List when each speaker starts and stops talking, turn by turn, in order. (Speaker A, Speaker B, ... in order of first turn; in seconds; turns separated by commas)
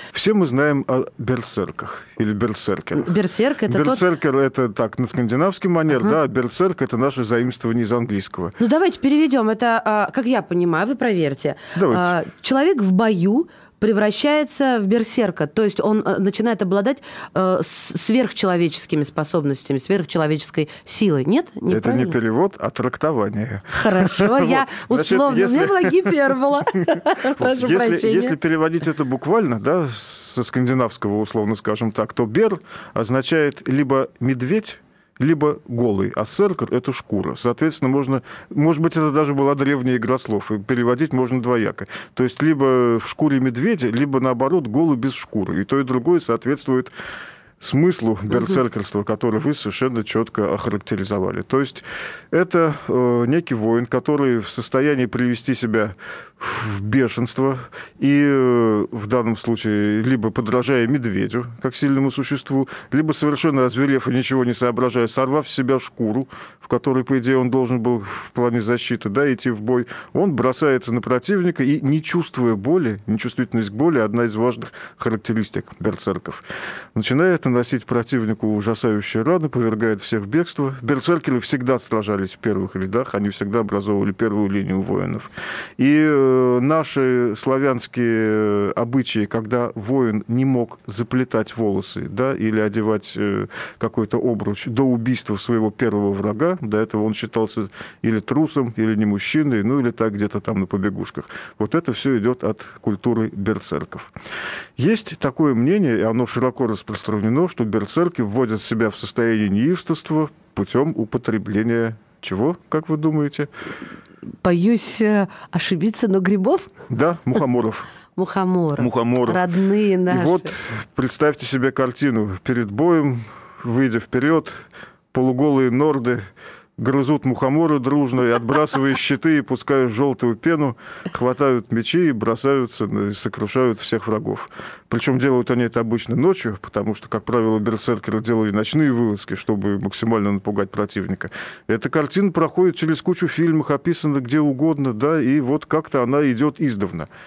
Speaker A: 0.1-3.1, Speaker B: 2.9-4.0, Speaker A: 3.7-8.6, Speaker B: 8.6-22.2, Speaker A: 11.7-12.2, Speaker A: 21.7-26.4, Speaker B: 23.8-28.4, Speaker A: 26.9-46.9, Speaker A: 47.6-104.1, Speaker A: 104.8-113.5, Speaker B: 114.4-116.7, Speaker A: 116.9-117.9, Speaker B: 118.2-120.5, Speaker A: 118.8-119.4, Speaker A: 120.1-147.1